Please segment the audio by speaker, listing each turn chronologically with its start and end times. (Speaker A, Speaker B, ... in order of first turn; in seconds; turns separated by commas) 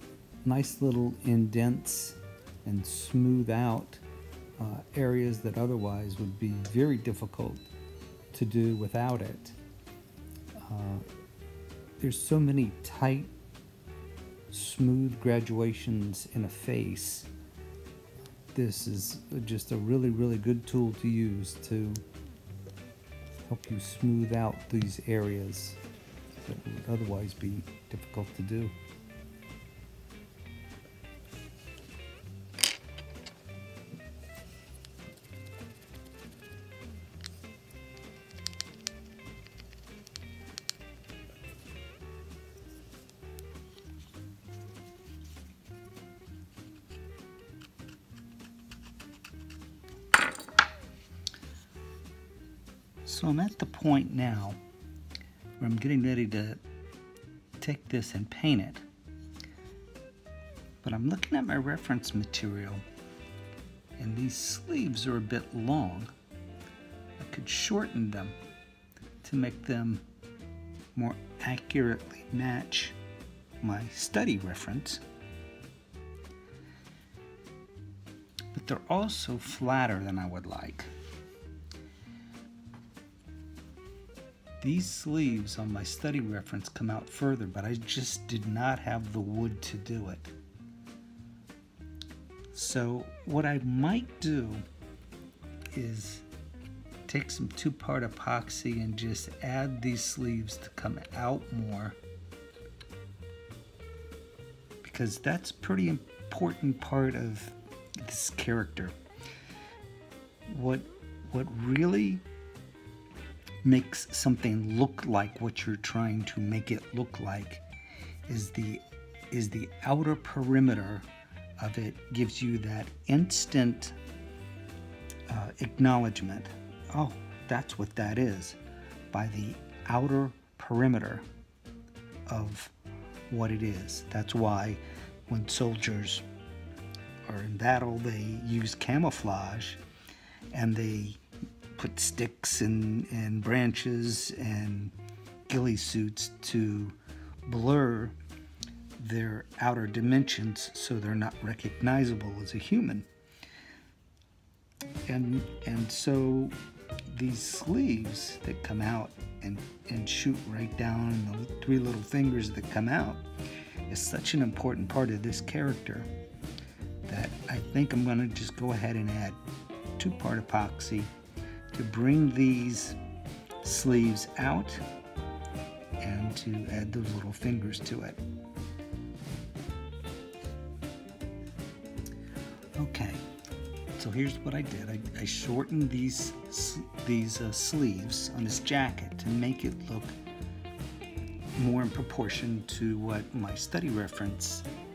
Speaker A: 0.4-4.0, Speaker A: 4.6-7.6, Speaker A: 8.3-9.6, Speaker A: 10.6-11.0, Speaker A: 12.0-13.3, Speaker A: 14.5-17.3, Speaker A: 18.5-22.0, Speaker A: 23.4-25.8, Speaker A: 26.4-28.7, Speaker A: 53.0-54.6, Speaker A: 55.6-56.6, Speaker A: 57.6-58.8, Speaker A: 60.8-62.8, Speaker A: 64.0-66.1, Speaker A: 67.2-68.4, Speaker A: 69.2-70.0, Speaker A: 70.9-73.0, Speaker A: 73.6-75.0, Speaker A: 78.5-80.9, Speaker A: 84.6-90.3, Speaker A: 92.5-94.6, Speaker A: 95.7-96.2, Speaker A: 97.1-102.0, Speaker A: 104.8-108.9, Speaker A: 110.5-112.2, Speaker A: 113.6-117.6, Speaker A: 118.3-121.1, Speaker A: 121.6-124.0, Speaker A: 125.3-128.6, Speaker A: 129.1-131.2, Speaker A: 132.3-132.7, Speaker A: 133.3-136.2, Speaker A: 137.2-139.8, Speaker A: 140.5-141.2, Speaker A: 141.8-144.9, Speaker A: 145.5-148.2, Speaker A: 149.0-153.1, Speaker A: 155.1-156.6, Speaker A: 157.1-163.2, Speaker A: 163.9-166.1, Speaker A: 167.1-169.4, Speaker A: 170.0-171.1, Speaker A: 171.7-173.0, Speaker A: 173.6-174.8, Speaker A: 176.0-178.2, Speaker A: 182.8-183.2, Speaker A: 183.9-190.2, Speaker A: 191.5-194.7